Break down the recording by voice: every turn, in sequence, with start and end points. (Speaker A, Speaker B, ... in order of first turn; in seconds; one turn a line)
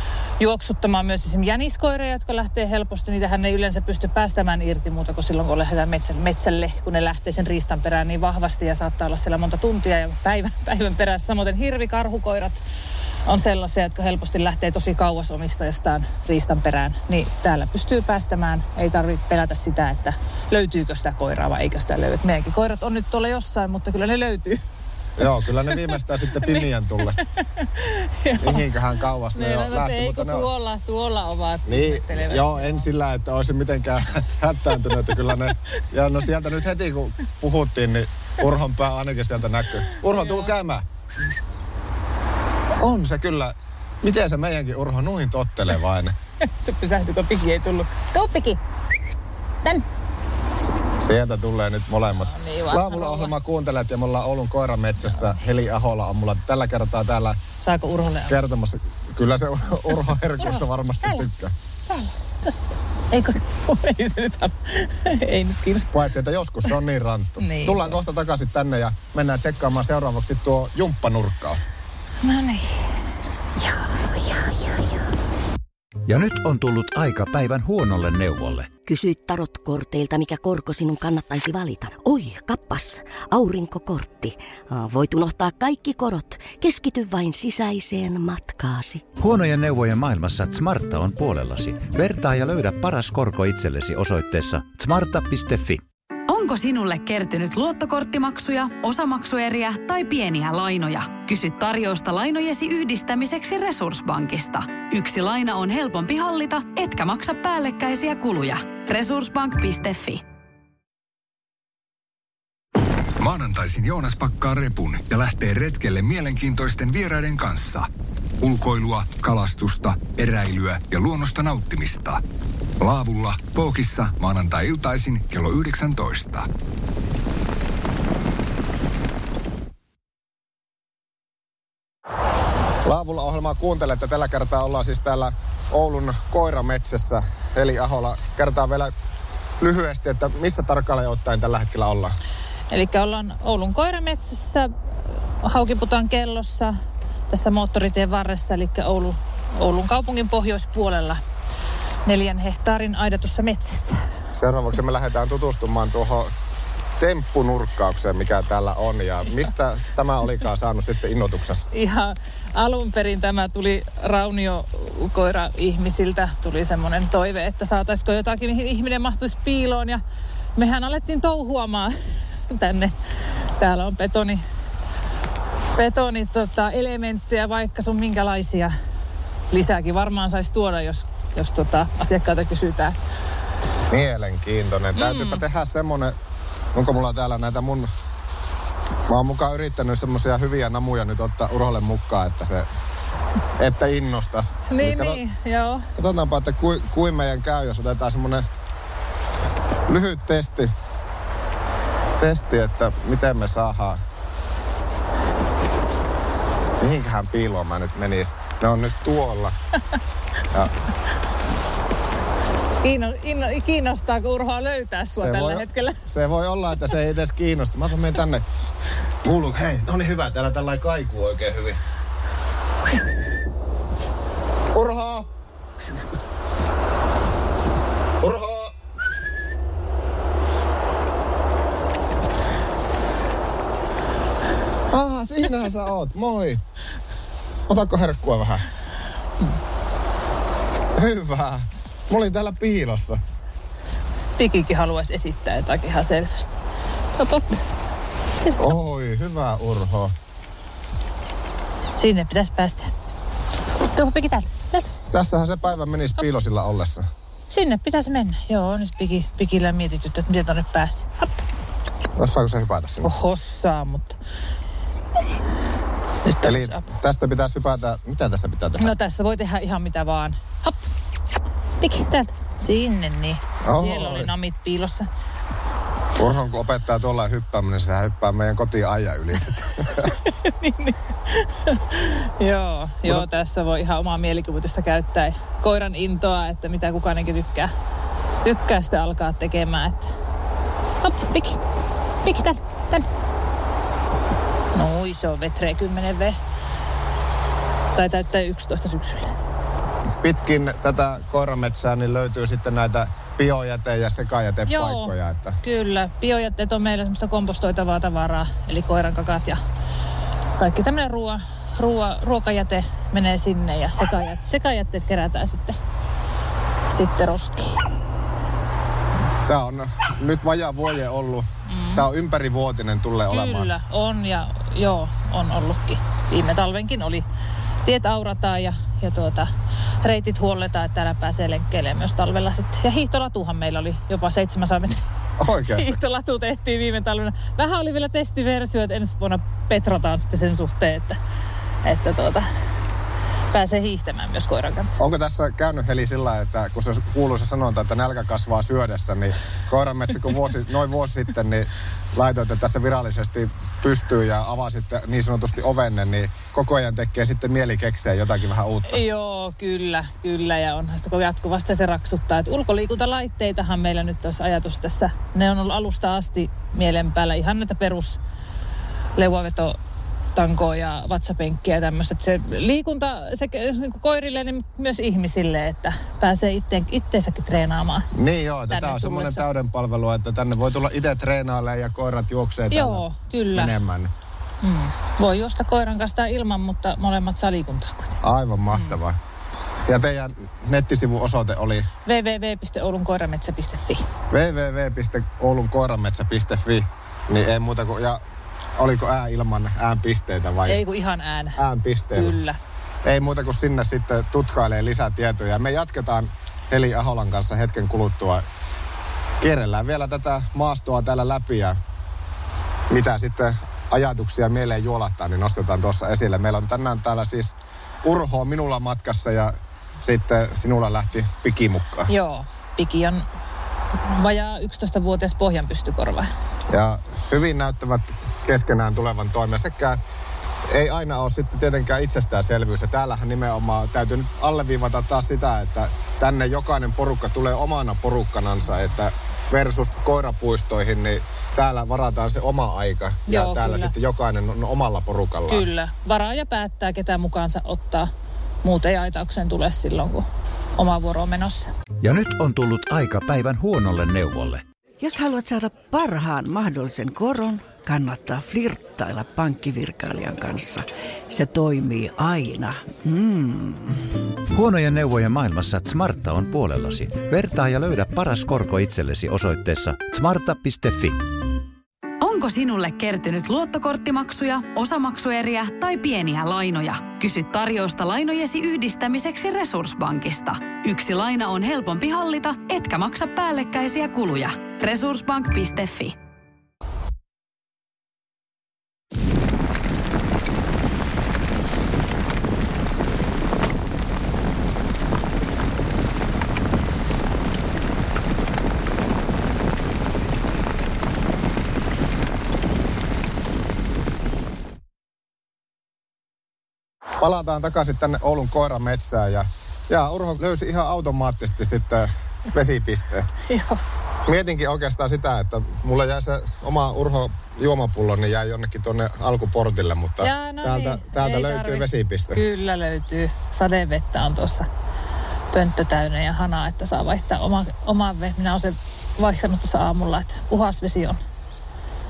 Speaker A: 0.4-12.6
Speaker A: 13.2-24.6
Speaker B: 25.2-27.2
Speaker A: 27.4-28.7
Speaker B: 28.4-30.5
Speaker A: 29.3-32.9
Speaker B: 31.6-40.9
Speaker A: 39.9-40.5
Speaker B: 42.8-46.1
Speaker A: 46.4-48.6
Speaker B: 51.0-57.4
Speaker A: 52.1-53.3
Speaker A: 57.6-58.4
Speaker B: 58.3-61.5
Speaker A: 60.4-61.3
Speaker A: 61.9-62.6
Speaker A: 63.1-65.9
Speaker B: 65.9-71.7
Speaker A: 67.4-68.0
Speaker A: 72.2-72.8
Speaker A: 73.6-75.0
Speaker C: 76.1-78.7
Speaker D: 78.8-89.0
Speaker C: 89.2-95.8
Speaker E: 96.3-110.2
Speaker F: 113.2-117.9
Speaker F: 118.4-122.2
Speaker F: 122.8-126.5
Speaker B: 132.8-138.9
Speaker B: 139.6-142.1
Speaker A: 142.7-144.7
Speaker A: 145.4-146.7
Speaker A: 147.3-151.2
Speaker A: 152.1-153.9
Speaker B: 154.3-156.3
Speaker B: 157.0-161.7
Speaker A: 161.7-170.0
Speaker A: 170.6-171.9
Speaker A: 172.5-172.9
Speaker A: 173.6-174.4
Speaker A: 175.8-178.7
Speaker A: 179.5-182.9
Speaker B: 183.9-186.1
Speaker A: 184.9-185.4
Speaker B: 186.7-187.9
Speaker B: 189.1-192.7
Speaker B: 193.6-195.2
Speaker A: 194.7-195.9
Speaker B: 195.9-198.4
Speaker B: 199.9-200.7
Speaker B: 202.2-204.0
Speaker B: 206.8-209.5
Speaker A: 212.8-216.1
Speaker B: 215.2-218.4
Speaker B: 219.2-221.8
Speaker B: 224.7-225.3
Speaker B: 228.2-228.7
Speaker B: 234.9-236.6
Speaker B: 237.7-238.7
Speaker B: 240.9-243.2
Speaker A: 244.4-246.6
Speaker A: 247.2-247.6
Speaker A: 248.4-248.7
Speaker B: 248.6-250.1
Speaker A: 252.0-252.9
Speaker A: 253.9-254.9
Speaker B: 255.1-257.1
Speaker A: 257.5-261.3
Speaker B: 262.2-263.1
Speaker A: 263.0-264.2
Speaker A: 266.2-266.9
Speaker B: 266.4-268.9
Speaker A: 268.8-270.8
Speaker A: 271.8-275.1
Speaker B: 273.6-274.3
Speaker B: 276.2-280.1
Speaker A: 280.2-287.7
Speaker A: 288.4-290.1
Speaker A: 291.0-291.6
Speaker A: 292.2-293.1
Speaker A: 294.7-296.4
Speaker A: 297.9-299.3
Speaker B: 300.2-305.6
Speaker A: 304.7-309.6
Speaker A: 310.6-315.8
Speaker A: 316.9-317.8
Speaker B: 319.4-323.7
Speaker A: 321.7-322.1
Speaker A: 323.3-327.2
Speaker A: 327.8-329.5
Speaker A: 330.0-335.0
Speaker B: 335.4-336.0
Speaker A: 335.7-341.2
Speaker A: 341.8-342.5
Speaker A: 343.5-345.0
Speaker B: 345.0-359.0
Speaker A: 358.9-368.2
Speaker A: 369.2-369.8
Speaker A: 370.3-378.1
Speaker B: 378.1-384.1
Speaker A: 378.7-379.4
Speaker A: 382.7-383.8
Speaker A: 384.6-388.2
Speaker B: 388.2-389.2
Speaker A: 388.7-389.0
Speaker B: 389.9-391.9
Speaker A: 392.1-394.0
Speaker B: 394.3-398.2
Speaker B: 398.8-400.8
Speaker A: 400.7-401.6
Speaker B: 401.6-402.4
Speaker A: 402.1-402.6
Speaker B: 403.0-408.4
Speaker B: 409.4-411.8
Speaker B: 412.9-422.1
Speaker A: 422.1-423.2
Speaker A: 424.1-426.3
Speaker B: 426.7-430.0
Speaker B: 430.7-445.7
Speaker A: 443.3-443.9
Speaker A: 445.5-448.1
Speaker A: 448.6-450.2
Speaker A: 450.8-451.7
Speaker C: 452.0-454.6
Speaker G: 455.0-464.0
Speaker C: 464.5-471.2
Speaker E: 472.2-486.1
Speaker B: 507.2-513.3
Speaker A: 513.5-513.8
Speaker B: 514.2-522.4
Speaker A: 520.2-524.7
Speaker A: 525.5-531.2